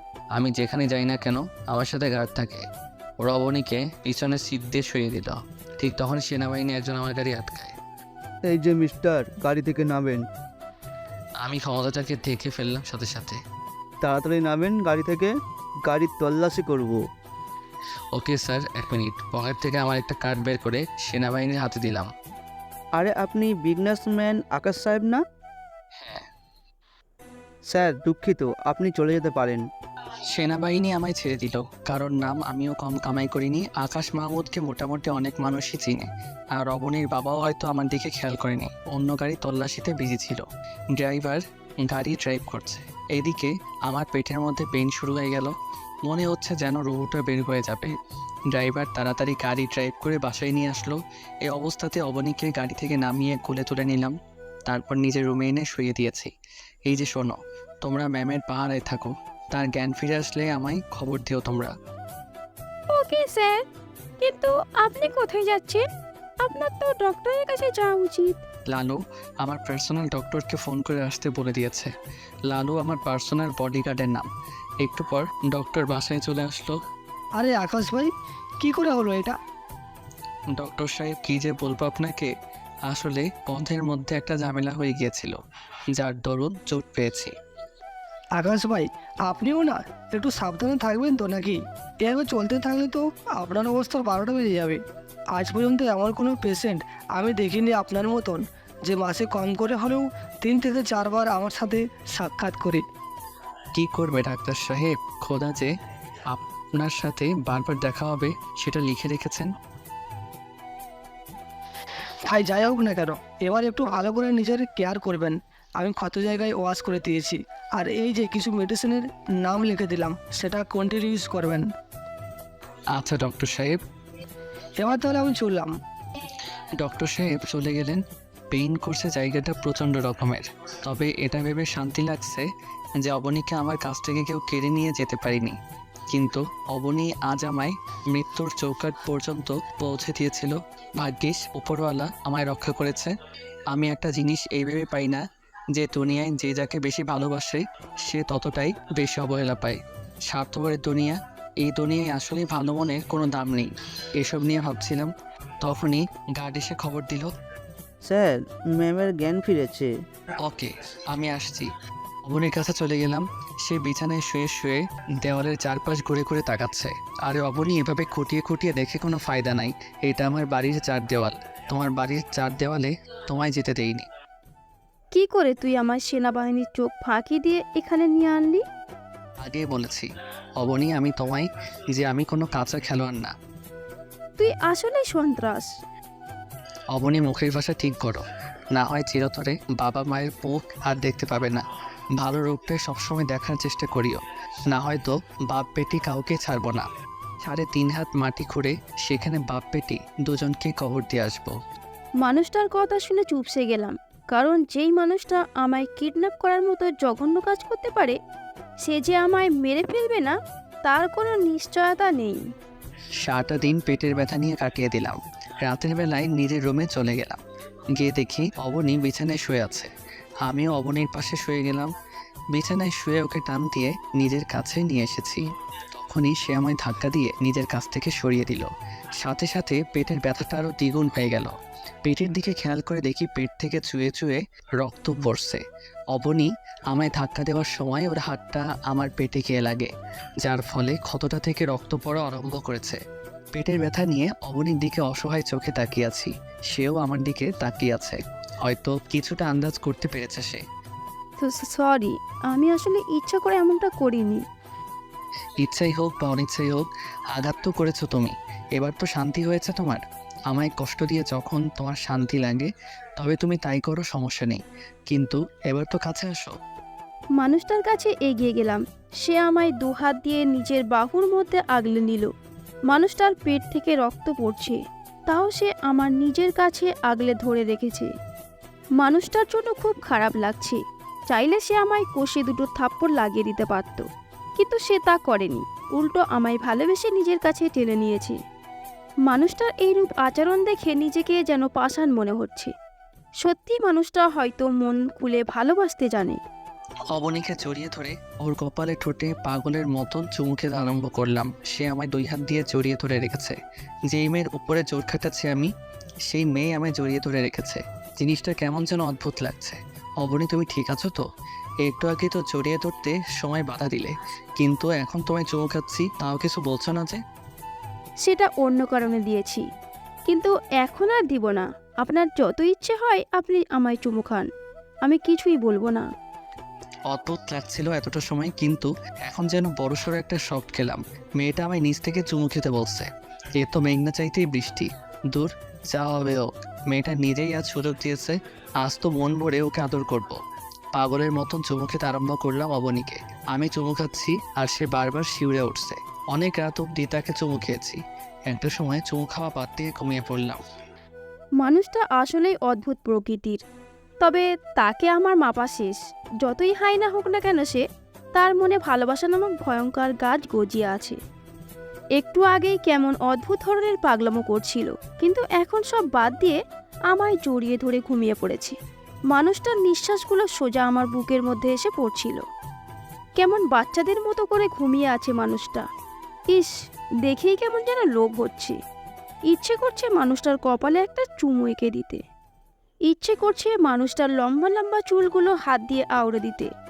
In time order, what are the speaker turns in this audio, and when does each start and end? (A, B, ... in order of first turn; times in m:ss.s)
0:00.4-0:02.6 A
0:03.2-0:07.8 A
0:08.4-0:10.2 B
0:11.4-0:13.4 A
0:14.0-0:15.3 B
0:15.9-0:17.0 B
0:18.1-0:22.1 A
0:23.0-0:25.2 B
0:26.0-0:26.3 A
0:27.7-0:29.6 B
0:30.3-0:45.6 A
0:46.1-0:47.9 A
0:48.5-0:54.1 A
0:54.7-0:56.3 A
0:56.9-1:01.7 A
1:02.9-1:03.6 C
1:04.2-1:05.8 C
1:06.4-1:08.4 C
1:08.7-1:11.9 A
1:12.5-1:14.3 A
1:14.8-1:16.8 A
1:17.4-1:19.4 D
1:20.5-1:22.3 A
1:22.9-1:25.4 A
1:25.9-1:27.3 A
1:28.4-1:34.8 D
1:35.3-1:42.8 D
1:43.8-1:45.7 A
1:46.3-1:49.5 A
1:52.2-2:01.6 D
2:02.9-2:03.8 A
2:04.8-2:05.7 D
2:06.8-2:12.5 A
2:13.0-2:15.6 A
2:16.1-2:23.1 A
2:23.7-2:25.2 A
2:25.7-2:35.1 A
2:35.6-2:37.3 A
2:38.1-2:39.9 B
2:40.4-2:41.7 A
2:42.2-2:54.1 A
2:55.1-2:58.6 C
2:59.4-3:00.1 A
3:00.6-3:03.3 A
3:04.4-3:05.7 C
3:06.9-3:08.2 A
3:08.8-3:11.6 A
3:12.2-3:16.9 A
3:17.4-3:21.6 A
3:22.2-3:28.2 C
3:28.8-3:32.4 C
3:33.2-3:37.4 A
3:38.0-3:39.9 A
3:40.4-3:41.9 A
3:42.5-3:51.5 A
3:52.0-3:55.6 A
3:56.1-3:59.9 A
4:00.4-4:03.0 A
4:03.5-4:10.6 A
4:11.4-4:14.4 C
4:15.6-4:26.6 A
4:27.4-4:32.3 C
4:32.9-4:38.1 C
4:39.0-4:40.8 C
4:41.3-4:44.0 C
4:44.6-4:48.4 C
4:49.3-4:52.7 C
4:53.4-4:56.4 C
4:57.1-5:03.6 A
5:04.1-5:05.7 A
5:06.3-5:11.2 A
5:11.8-5:17.2 A
5:18.2-5:19.6 C
5:20.3-5:24.5 C
5:25.0-5:26.1 C
5:27.1-5:40.4 A
5:41.0-5:50.6 A
5:51.6-5:53.6 C
5:54.2-5:57.8 C
5:58.4-6:01.2 C
6:02.2-6:06.6 C
6:07.1-6:08.8 C
6:09.3-6:12.4 C
6:13.4-6:15.8 C
6:17.3-6:18.8 C
6:19.5-6:22.2 C
6:23.1-6:26.7 C